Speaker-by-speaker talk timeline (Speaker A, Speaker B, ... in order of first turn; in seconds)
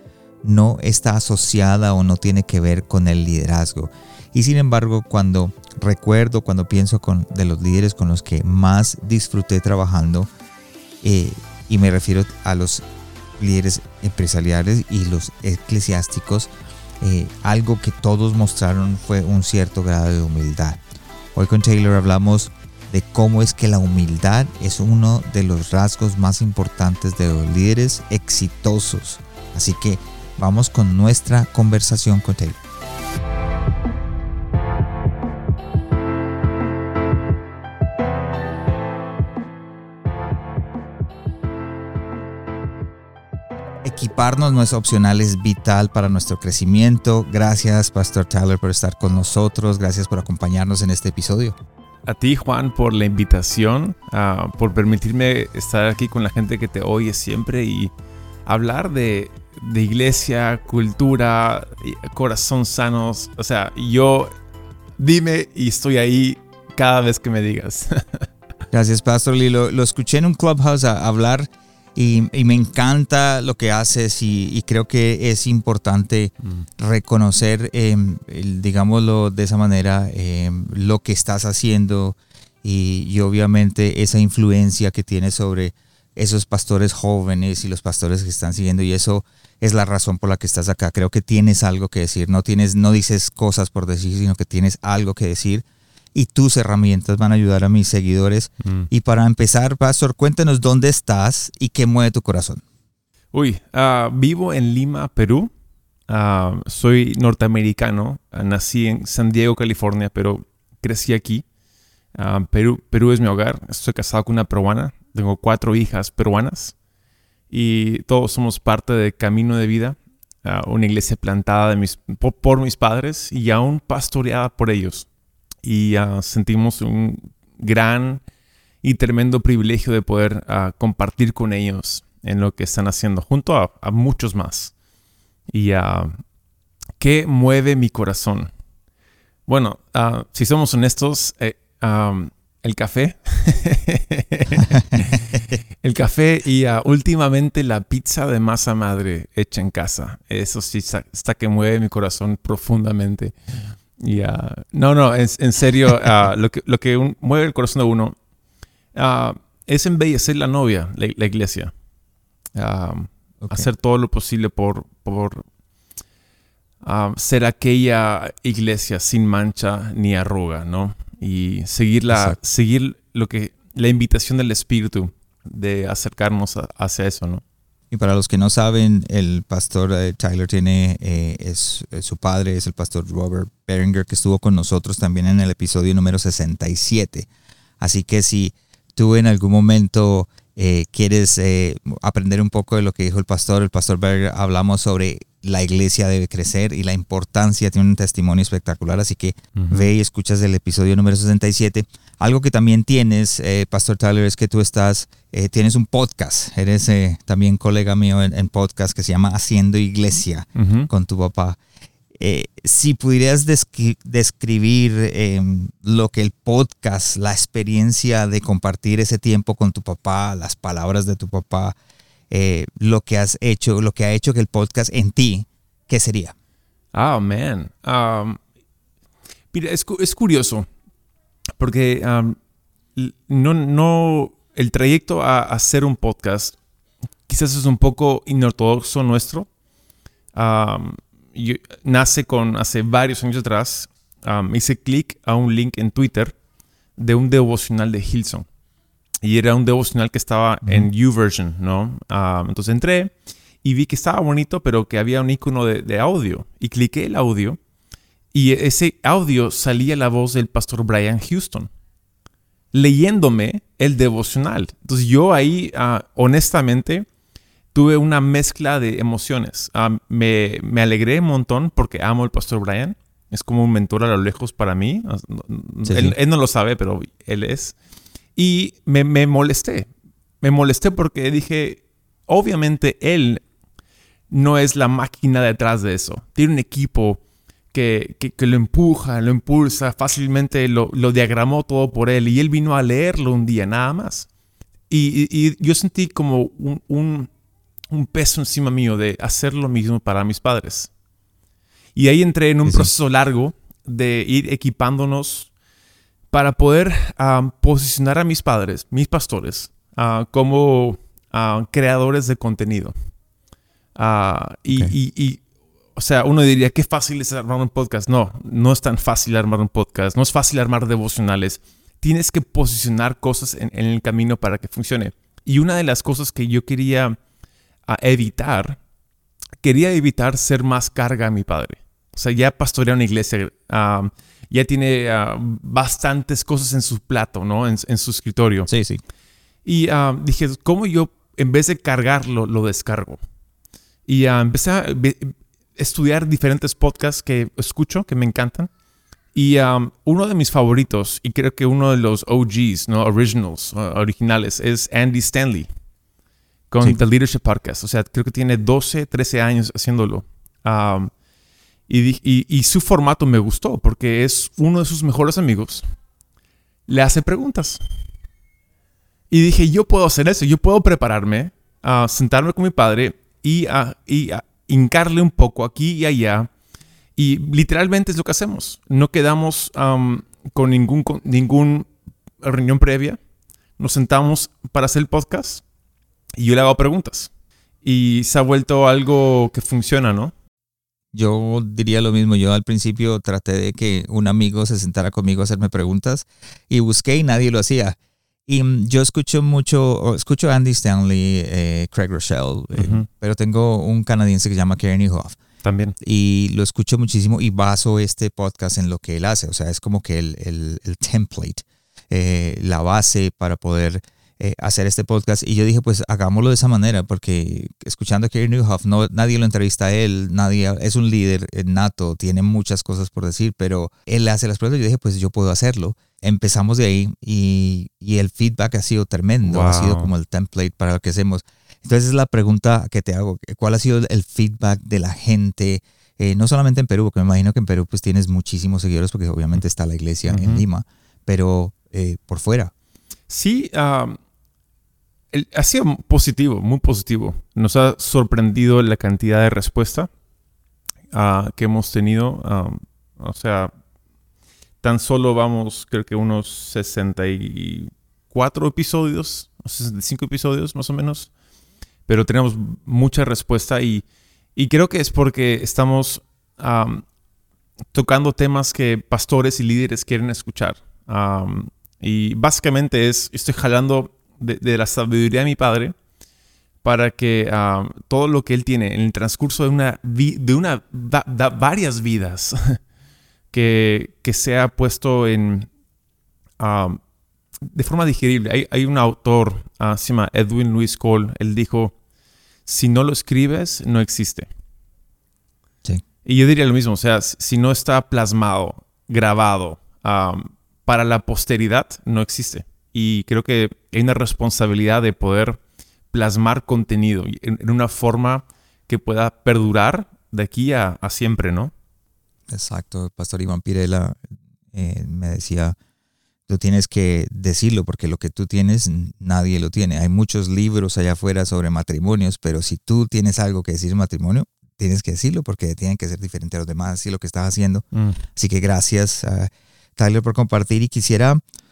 Speaker A: 0.4-10.3, 11.0-12.8, 13.4-20.8, 21.3-32.6, 43.8-51.6, 68.7-102.6, 144.7-145.1, 172.1-172.3, 177.9-187.3, 187.8-211.6, 212.2-221.7, 222.3-226.3, 275.9-276.1, 302.6-302.9, 338.7-339.0, 391.1-405.4, 406.0-442.7, 512.5-514.2, 514.7-515.8, 516.5-531.4
Speaker B: 52.1-57.9, 58.5-64.3, 65.0-68.3, 98.6-98.9, 103.3-105.5, 106.1-111.4, 112.1-116.7, 117.5-125.1, 125.6-128.2, 128.8-134.7, 135.5-136.2, 137.0-138.5, 139.5-153.3, 154.0-158.1, 158.9-161.7, 162.6-165.4, 166.8-177.4, 199.6-199.9, 210.6-210.9, 226.9-228.4, 229.5-230.7, 231.6-232.3, 232.9-236.6, 237.3-239.5, 240.3-246.3, 247.0-248.5, 249.2-257.6, 258.3-261.7, 262.7-267.1, 267.7-277.7, 278.4-279.9, 280.4-283.4, 284.3-287.2, 287.7-294.3, 294.9-297.3, 297.9-300.9, 301.9-305.5, 306.3-312.9, 313.9-315.4, 315.9-327.1, 327.9-328.8, 329.6-338.7, 339.6-343.2, 344.1-348.7, 349.3-355.7, 356.7-361.1, 361.9-365.9, 366.9-367.8, 369.3-376.5, 377.1-381.9, 382.4-383.2, 383.8-385.6, 386.4-387.3, 387.8-390.3, 402.7-403.1, 405.6-405.9, 429.4-430.1, 440.3-440.6, 443.3-444.2, 445.3-450.1, 451.1-453.7, 454.8-461.3, 462.1-464.0, 464.6-467.0, 467.9-475.9, 476.8-482.8, 483.5-485.7, 486.6-487.0, 487.6-491.9, 492.6-494.5, 496.2-505.6, 506.1-511.7, 527.9-528.2